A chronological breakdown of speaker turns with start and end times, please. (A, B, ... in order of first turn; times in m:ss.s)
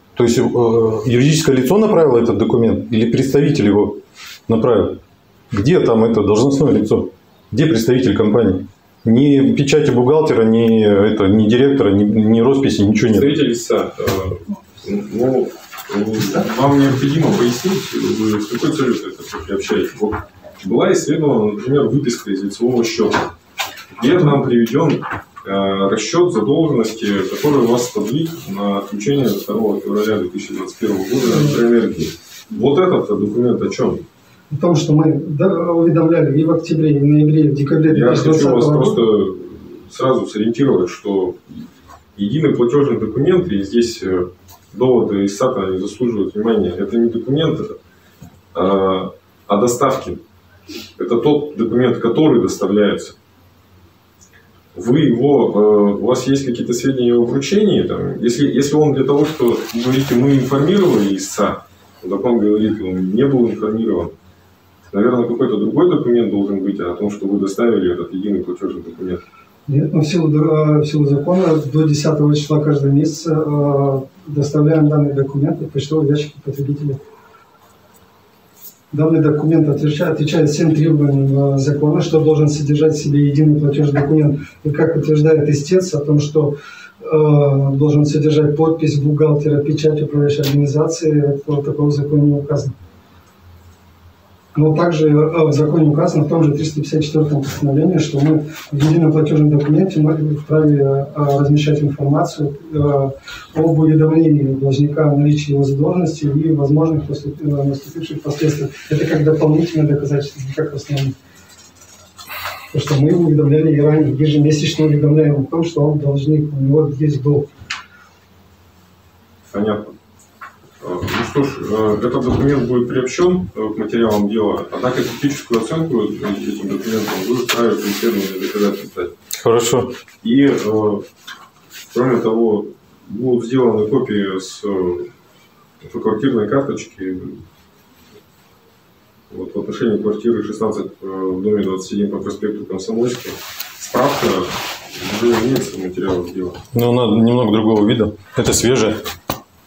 0:00.2-0:05.0 A
0:05.5-0:13.3 A
0:13.0-0:23.3 B
0:24.0-0:34.0 B
0:31.3-0:31.6 C
0:34.5-0:39.0 C
0:37.9-0:41.6 B
0:42.2-0:47.8 B
0:48.5-0:50.2 B
0:51.0-0:53.2 B
0:54.7-1:04.2 B
1:04.9-1:09.2 B
1:09.7-1:17.0 C
1:18.9-1:32.7 C
1:34.5-1:51.1 C
1:52.7-1:57.5 C
1:59.5-2:00.0 B
2:00.8-2:09.1 B
2:09.3-2:10.0 A
2:10.2-2:11.0 B
2:11.9-2:15.1 B
2:15.8-2:17.4 B
2:19.3-2:26.6 B
2:26.7-2:29.0 A